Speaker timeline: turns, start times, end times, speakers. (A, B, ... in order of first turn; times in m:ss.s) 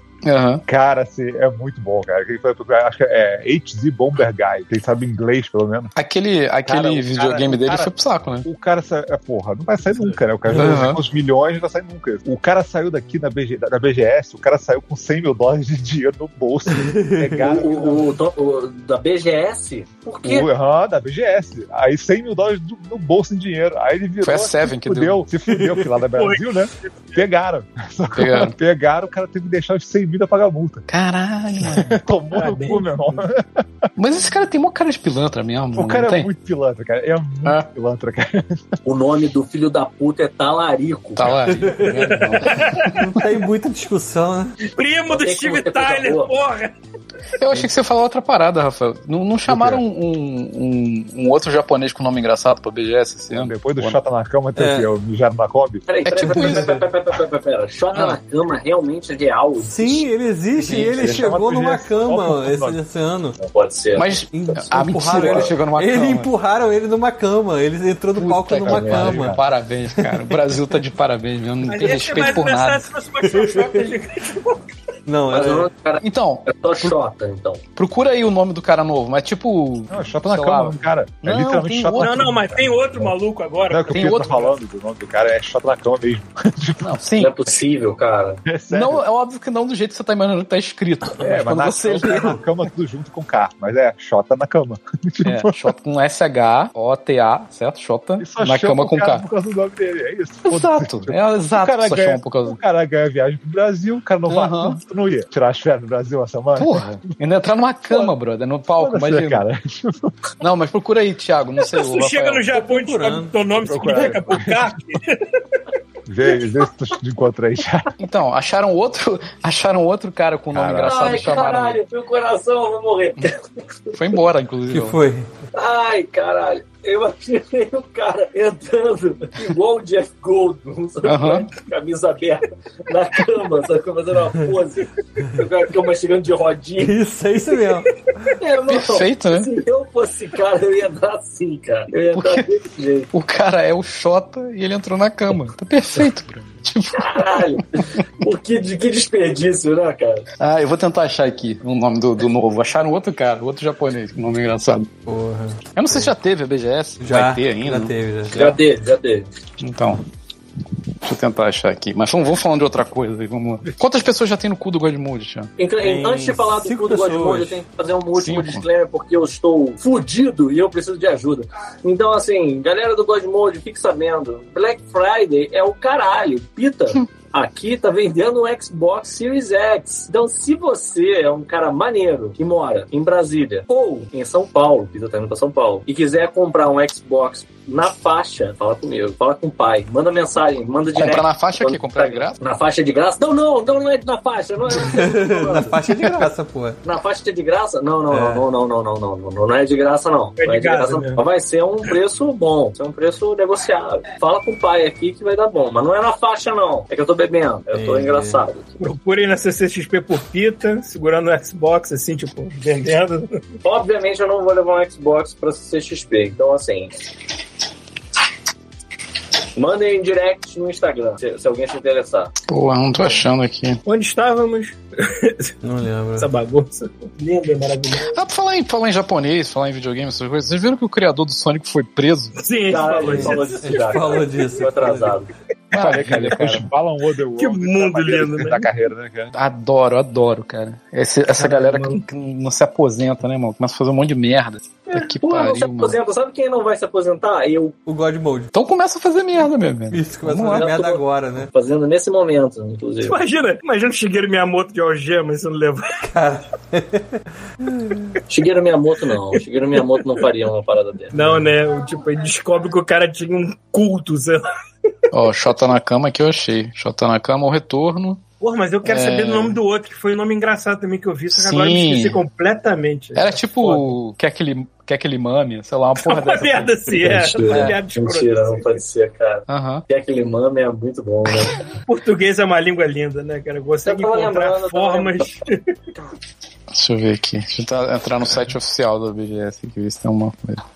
0:00.2-0:00.6 A
0:00.6-0:05.9 B
0:05.9-0:08.5 A
0:06.6-0:07.9 B
0:08.4-0:18.2 B
0:10.5-0:11.0 A
0:10.5-0:10.8 C
0:16.7-0:17.4 C
0:17.4-0:20.5 D
0:20.2-0:30.9 B
0:24.2-0:25.2 A
0:25.5-0:25.9 C
0:26.2-0:27.2 E
0:28.1-0:28.5 A
0:30.9-0:32.0 A
0:31.6-0:33.6 B
0:32.3-0:33.2 E
0:34.0-0:36.3 A
0:35.8-0:38.7 B
0:38.8-0:41.4 D
0:41.2-0:43.2 A
0:41.4-0:44.5 C
0:41.8-0:43.0 E
0:44.7-0:46.7 E
0:45.1-0:46.3 D
0:47.4-0:54.0 A
0:49.5-0:49.8 B
0:53.3-0:55.8 B
0:54.6-0:54.9 C
0:55.9-1:00.0 D
0:56.0-0:56.8 A
0:56.3-0:56.8 C
0:57.9-0:58.2 A
0:59.6-1:03.4 C
1:00.6-1:02.8 B
1:00.7-1:01.2 A
1:03.4-1:04.3 D
1:04.0-1:06.3 A
1:04.3-1:09.4 C
1:08.2-1:12.9 A
1:08.6-1:09.4 B
1:09.9-1:10.4 C
1:11.7-1:14.7 E
1:13.3-1:13.9 C
1:15.0-1:15.7 C
1:15.3-1:17.6 D
1:16.0-1:16.9 A
1:17.8-1:22.2 A
1:19.9-1:23.1 B
1:22.0-1:24.5 E
1:23.7-1:27.0 B
1:23.9-1:24.4 A
1:26.8-1:27.4 A
1:27.2-1:28.4 D
1:28.4-1:29.0 B
1:28.7-1:32.4 A
1:31.2-1:35.7 B
1:35.2-1:39.2 A
1:38.2-1:47.0 B
1:40.5-1:42.6 A
1:44.3-1:44.8 A
1:46.6-1:49.4 A
1:48.8-1:50.1 B
1:50.4-1:52.5 A
1:51.7-1:55.6 E
1:52.5-1:53.4 C
1:53.6-1:54.8 B
1:56.1-1:57.9 B
1:58.0-2:01.8 A
2:00.5-2:01.1 B
2:00.8-2:04.0 D
2:03.9-2:05.0 A
2:04.7-2:05.3 C
2:05.5-2:17.0 D
2:11.0-2:11.5 A
2:16.8-2:17.9 C
2:18.4-2:23.1 D
2:18.7-2:19.5 A
2:22.1-2:22.5 A
2:23.1-2:27.6 A
2:26.9-2:30.2 D
2:30.4-2:34.9 A
2:35.0-2:36.1 C
2:35.8-2:38.4 A
2:37.0-2:38.6 C
2:38.3-2:39.3 D
2:39.6-2:40.0 A
2:41.0-2:45.5 A
2:45.6-3:15.8 D
2:45.8-2:47.6 C
2:48.1-2:48.6 A
3:10.9-3:12.4 A
3:14.7-3:16.8 C
3:16.8-3:28.7 D
3:18.1-3:18.4 C
3:20.4-3:21.2 E
3:27.7-3:28.4 C
3:28.8-3:33.4 E
3:33.6-3:36.9 D
3:39.6-3:42.3 D
3:42.5-3:43.8 A
3:43.8-3:45.5 E
3:45.6-3:46.3 C
3:46.2-3:48.2 E
3:48.1-3:52.3 A
3:52.3-3:54.3 E
3:52.7-3:55.3 D
3:53.1-3:55.2 C
3:55.7-3:56.7 A
3:55.7-3:59.3 B
3:57.4-3:58.7 E
3:59.3-4:06.0 A
4:01.3-4:02.0 E
4:04.9-4:07.8 D
4:07.8-4:08.5 C
4:08.5-4:10.7 A
4:09.9-4:11.5 C
4:10.5-4:13.2 D
4:13.0-4:15.9 E
4:16.0-4:18.2 C
4:18.3-4:21.1 D
4:21.1-4:24.4 E
4:21.2-4:21.4 C
4:25.1-4:28.2 A
4:28.4-4:33.9 E
4:28.8-4:29.6 A
4:31.3-4:32.2 A
4:33.1-4:37.7 A
4:36.0-4:38.8 E
4:36.9-4:41.6 D
4:39.5-4:39.8 A
4:41.8-4:45.6 E
4:43.8-4:45.4 D
4:46.7-4:50.6 A